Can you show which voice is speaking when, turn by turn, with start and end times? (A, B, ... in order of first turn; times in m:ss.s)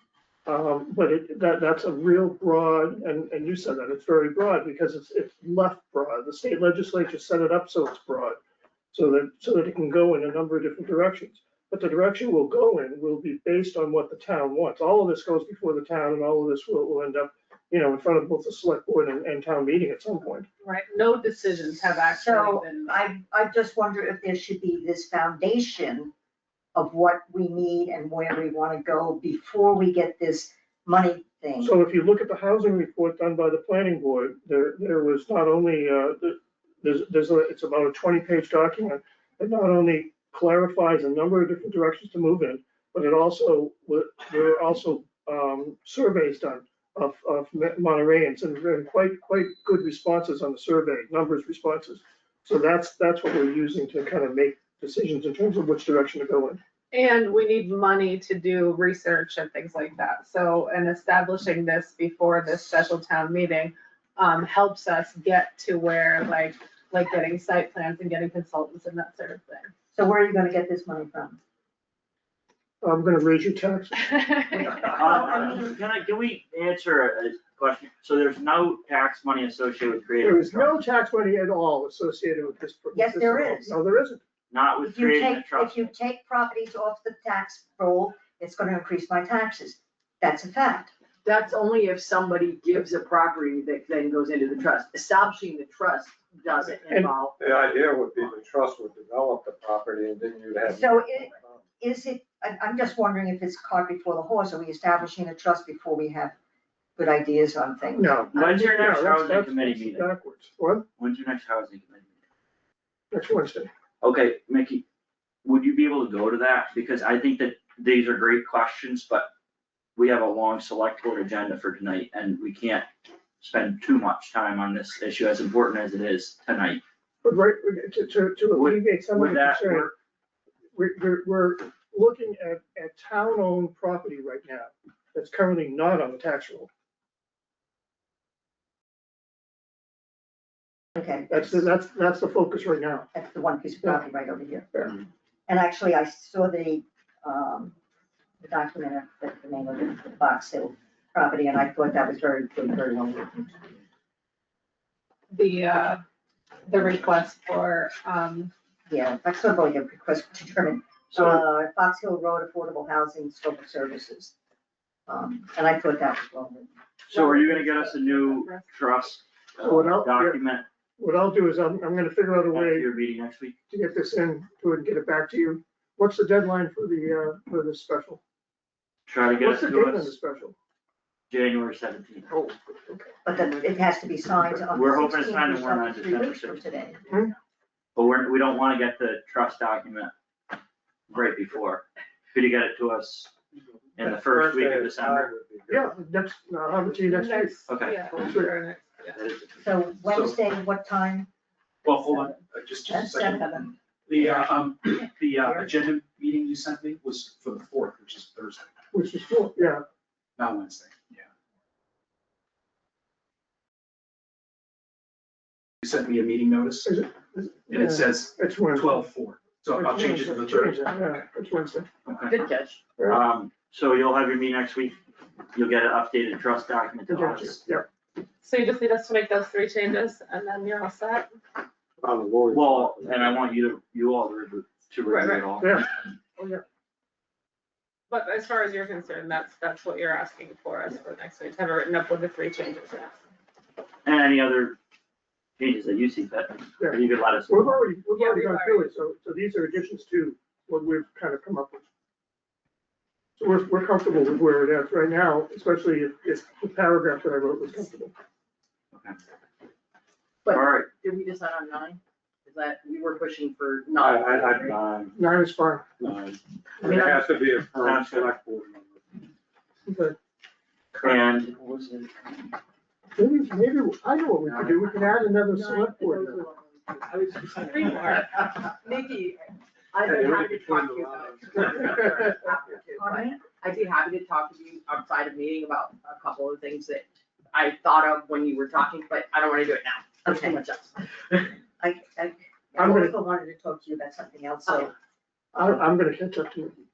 0:00.4-0:08.4 A
0:08.9-0:20.5 A
0:20.6-0:23.0 B
0:22.0-0:26.1 C
0:26.7-0:31.7 C
0:31.6-0:56.6 A
0:56.9-1:09.7 B
1:09.9-1:11.4 C
1:12.8-1:14.1 A
1:14.4-1:14.8 B
1:14.9-1:15.7 C
1:14.9-1:20.7 D
1:20.2-1:24.2 A
1:22.9-1:23.8 C
1:24.5-1:25.8 D
1:24.8-1:30.9 C
1:31.2-1:37.3 E
1:37.4-1:41.6 F
1:40.7-1:46.3 C
1:47.0-1:48.2 C
1:48.0-1:50.8 A
1:48.3-1:50.1 D
1:51.0-1:52.1 D
1:53.1-1:53.7 A
1:54.0-1:54.8 D
1:55.4-1:59.3 D
2:00.0-2:02.9 D
2:03.4-2:06.8 D
2:07.2-2:09.9 A
2:08.5-2:09.9 D
2:10.7-2:16.7 A
2:21.0-2:21.6 C
2:21.3-2:23.1 A
2:23.1-2:27.7 C
2:28.4-2:33.6 C
2:35.3-2:36.0 B
2:36.6-2:38.5 B
2:38.9-2:44.3 C
2:45.1-2:46.7 C
2:47.1-2:50.6 D
2:47.1-2:48.7 B
2:49.6-2:50.4 A
2:51.0-2:52.9 A
2:52.5-2:53.5 D
2:53.7-2:58.2 A
2:59.1-3:00.1 D
2:59.4-3:00.5 A
3:01.3-3:02.3 D
3:02.3-3:03.1 A
3:03.2-3:07.0 C
3:04.7-3:06.6 D
3:07.1-3:07.3 A
3:08.0-3:10.1 D
3:11.1-3:13.3 D
3:14.0-3:15.3 D
3:14.0-3:15.9 F
3:15.7-3:17.6 A
3:17.0-3:19.2 B
3:17.7-3:18.1 D
3:19.1-3:19.6 D
3:19.6-3:21.3 C
3:20.0-3:20.4 G
3:21.8-3:28.7 G
3:22.8-3:23.7 C
3:28.9-3:29.8 A
3:30.4-3:31.3 G
3:35.8-3:37.0 G
3:36.8-3:39.1 A
3:37.7-3:41.0 G
3:39.7-3:41.9 A
3:42.0-3:42.4 D
3:42.3-3:42.8 E
3:43.0-3:45.0 D
3:45.5-3:47.6 D
3:47.1-3:47.8 A
3:48.4-3:51.3 B
3:52.0-3:53.4 F
3:52.5-3:55.8 D
3:55.1-3:55.5 B
3:55.6-3:55.9 A
3:58.1-4:03.2 B
4:04.0-4:04.8 D
4:05.6-4:07.8 D
4:06.8-4:11.8 A
4:08.1-4:08.9 B
4:13.4-4:18.1 A
4:20.4-4:24.7 E
4:20.5-4:20.9 D
4:24.0-4:24.8 F
4:24.7-4:25.1 D
4:25.1-4:25.8 A
4:26.8-4:29.2 F
4:27.7-4:28.3 D
4:29.9-4:30.2 A
4:30.9-4:31.7 D
4:33.2-4:36.4 A
4:35.5-4:51.4 E
4:37.7-4:38.3 B
4:40.0-4:41.9 F
4:43.0-4:43.4 C
4:50.2-4:50.6 C
4:51.7-4:54.9 C
4:52.8-4:53.1 A
4:55.5-4:56.8 A